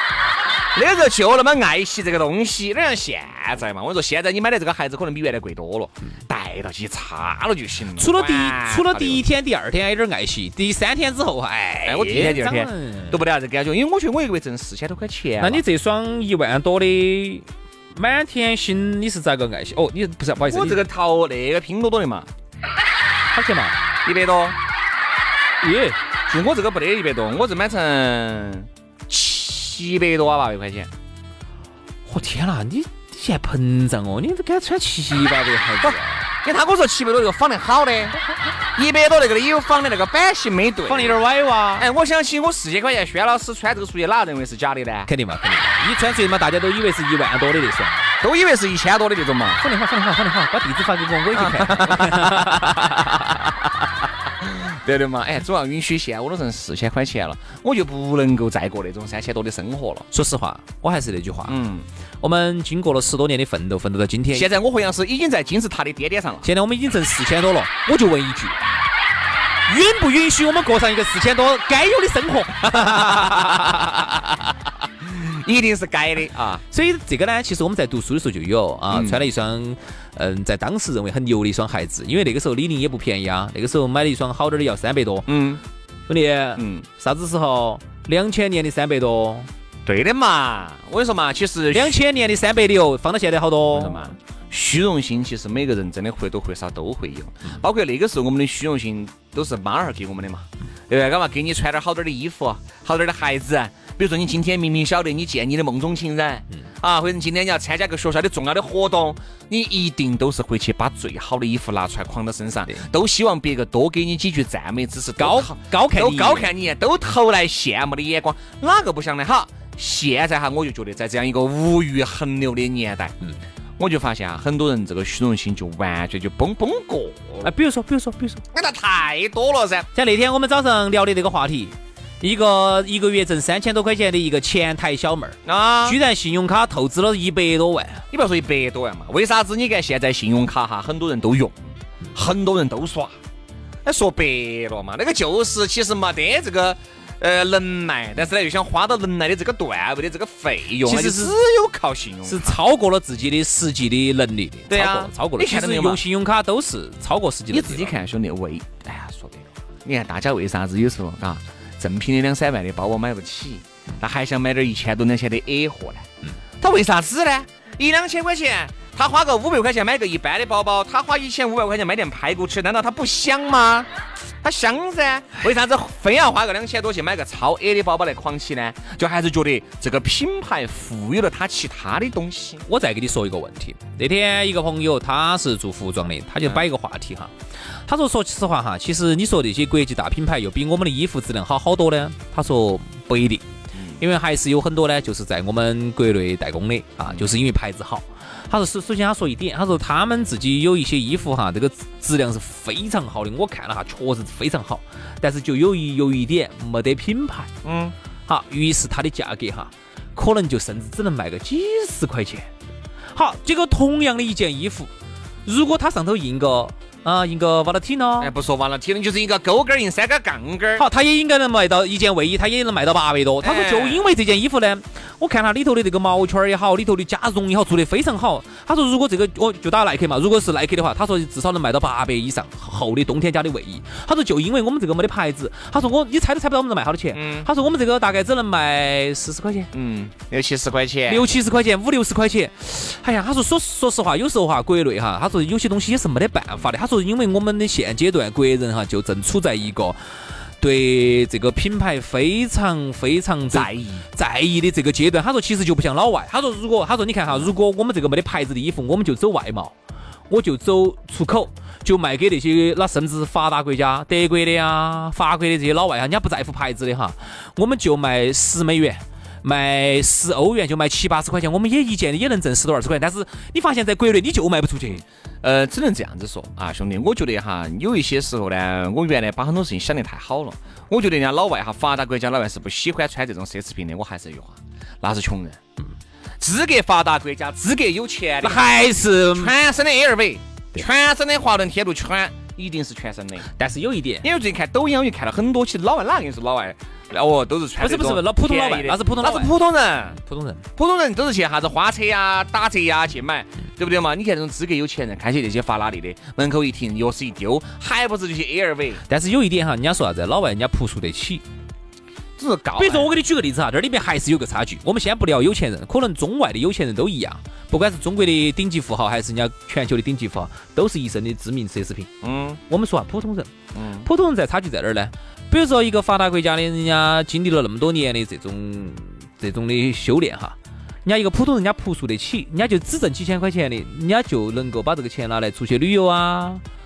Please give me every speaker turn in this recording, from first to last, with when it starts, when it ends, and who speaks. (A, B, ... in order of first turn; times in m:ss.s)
0:00.7-0:09.2 A
0:08.0-0:13.2 B
0:11.8-0:15.6 A
0:15.4-0:20.8 B
0:20.4-0:22.3 A
0:23.3-0:23.8 B
0:24.0-0:24.6 A
0:25.6-0:26.0 B
0:26.3-0:30.9 A
0:32.0-0:36.3 B
0:35.8-0:38.2 A
0:38.8-0:41.2 A
0:40.8-0:41.9 B
0:41.8-0:45.1 A
0:45.1-0:48.1 B
0:48.2-0:49.6 A
0:49.6-0:53.2 B
0:51.3-0:52.4 A
0:54.4-1:00.0 A
1:00.1-1:01.5 B
1:01.5-1:01.8 A
1:02.2-1:04.5 B
1:04.3-1:06.5 A
1:06.4-1:08.6 B
1:09.7-1:14.0 B
1:15.0-1:16.6 A
1:16.7-1:25.3 B
1:18.9-1:19.2 A
1:25.3-1:25.6 A
1:26.1-1:29.5 B
1:26.6-1:26.8 A
1:29.8-1:32.0 A
1:31.7-1:34.1 B
1:33.7-2:03.1 A
1:55.2-1:56.5 B
2:03.8-2:07.5 A
2:07.4-2:08.4 B
2:08.5-2:09.9 A
2:09.9-2:18.0 B
2:15.4-2:16.0 A
2:18.1-2:23.1 A
2:23.8-2:32.6 A
2:30.8-2:31.3 B
2:32.2-2:37.9 B
2:34.7-2:36.0 A
2:37.5-2:46.0 A
2:46.6-2:53.9 A
2:54.4-3:02.6 A
3:02.7-3:07.3 B
3:07.9-3:13.4 B
3:13.8-3:14.0 A
3:14.0-3:27.5 B
3:27.6-3:27.9 A
3:28.3-3:32.5 B
3:33.1-3:34.9 B
3:35.4-3:38.3 B
3:38.2-3:40.8 A
3:40.8-3:59.7 B
3:43.4-3:44.1 A
3:57.1-3:57.5 A
3:59.7-4:01.2 A
4:01.1-4:10.0 B
4:10.6-4:19.7 B
4:13.5-4:14.0 A
4:20.3-4:35.0 B
4:35.4-4:45.6 A
4:46.4-4:48.7 A
4:48.4-4:49.5 B
4:49.3-4:53.5 A
4:53.6-4:54.3 B
4:54.2-5:00.2 A
4:57.8-4:59.6 B
5:00.1-5:00.6 B
5:00.8-5:09.0 A
5:09.1-5:11.4 B
5:12.4-5:13.1 A
5:12.8-5:22.1 B
5:22.2-5:22.6 A
5:22.7-5:23.5 B
5:23.7-5:24.1 A
5:24.0-5:36.6 B